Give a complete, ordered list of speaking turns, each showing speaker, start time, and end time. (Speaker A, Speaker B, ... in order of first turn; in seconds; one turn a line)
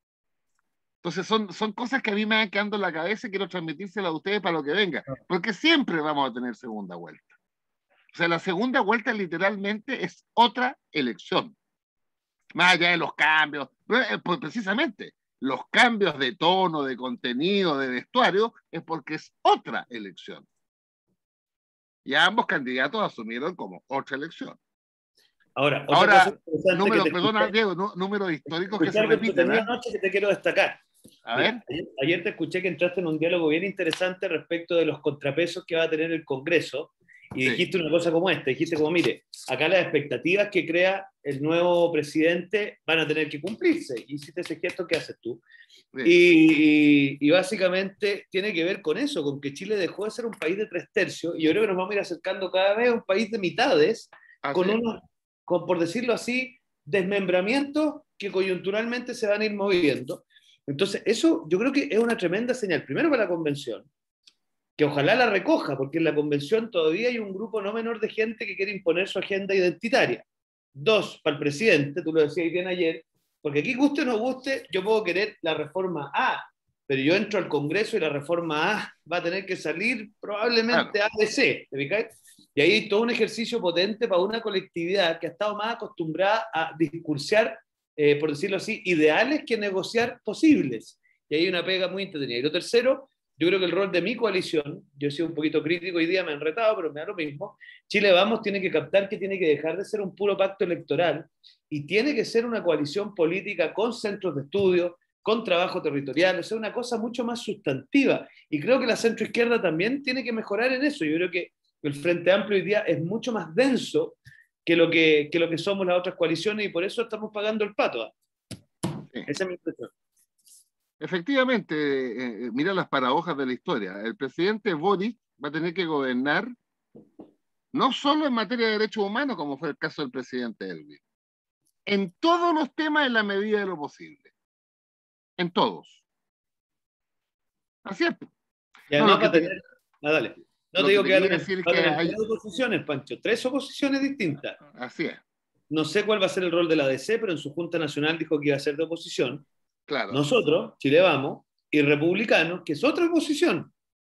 Speaker A: 1.0-7.3
Speaker A: 8.1-11.6
Speaker A: 12.6-20.5
Speaker A: 22.1-24.6
Speaker B: 25.6-27.5
Speaker A: 25.9-29.7
Speaker B: 28.5-30.8
Speaker A: 31.3-31.6
Speaker B: 31.4-45.4
Speaker B: 46.0-63.9
Speaker A: 54.4-54.8
Speaker B: 64.8-118.1
Speaker B: 119.3-119.9
Speaker A: 121.0-126.5
Speaker A: 127.7-131.0
Speaker A: 131.9-134.3
Speaker A: 135.4-136.0
Speaker A: 137.8-138.3
Speaker B: 138.9-144.6
Speaker A: 139.0-139.6
Speaker A: 140.8-142.2
Speaker A: 144.7-145.2
Speaker B: 145.7-149.5
Speaker A: 149.9-150.2
Speaker B: 150.1-153.7